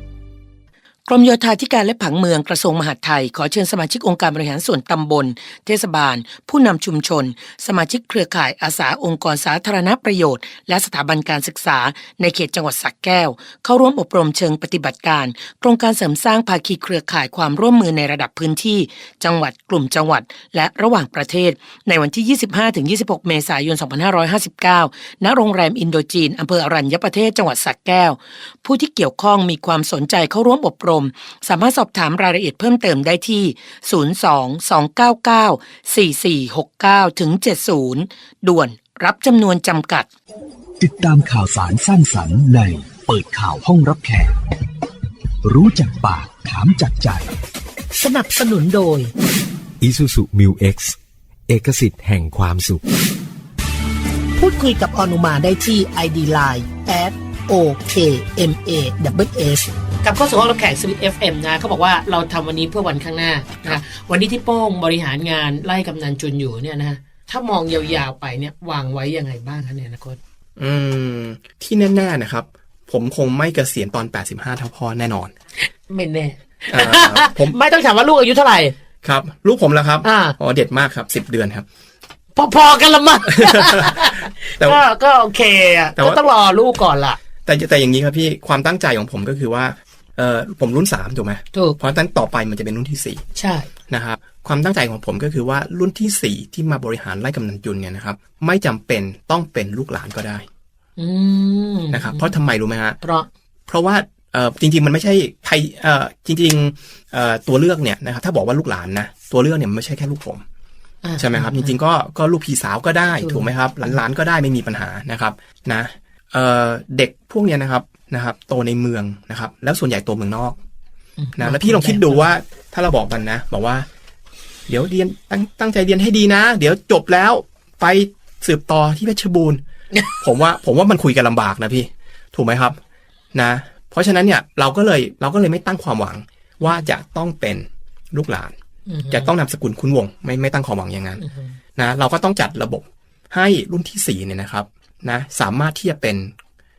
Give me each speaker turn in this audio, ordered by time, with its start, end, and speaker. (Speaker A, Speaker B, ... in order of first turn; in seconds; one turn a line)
Speaker A: 1.1-40.1
Speaker B: 40.8-44.4
Speaker B: 45.4-47.4
Speaker A: 47.9-49.1
Speaker C: 49.8-51.0
Speaker C: 51.5-52.8
Speaker A: 54.4-70.2
Speaker D: 70.6-75.3
Speaker A: 75.6-78.8
Speaker D: 76.7-77.6
Speaker D: 79.0-81.7
Speaker A: 80.0-80.4
Speaker A: 82.4-87.2
Speaker D: 83.4-84.8
Speaker D: 87.4-93.2
Speaker A: 93.3-93.7
Speaker D: 93.9-100.5
Speaker A: 101.0-102.3
Speaker D: 101.9-103.0
Speaker A: 103.0-103.3
Speaker D: 103.7-110.4
Speaker A: 111.0-111.8
Speaker D: 111.2-120.6
Speaker A: 113.2-113.9
Speaker A: 121.2-122.3
Speaker D: 121.4-123.9
Speaker D: 124.7-129.6
Speaker D: 130.2-132.8
Speaker D: 133.3-138.6
Speaker A: 136.6-136.9
Speaker A: 138.9-139.3
Speaker D: 139.1-141.2
Speaker A: 141.2-141.5
Speaker D: 141.8-146.3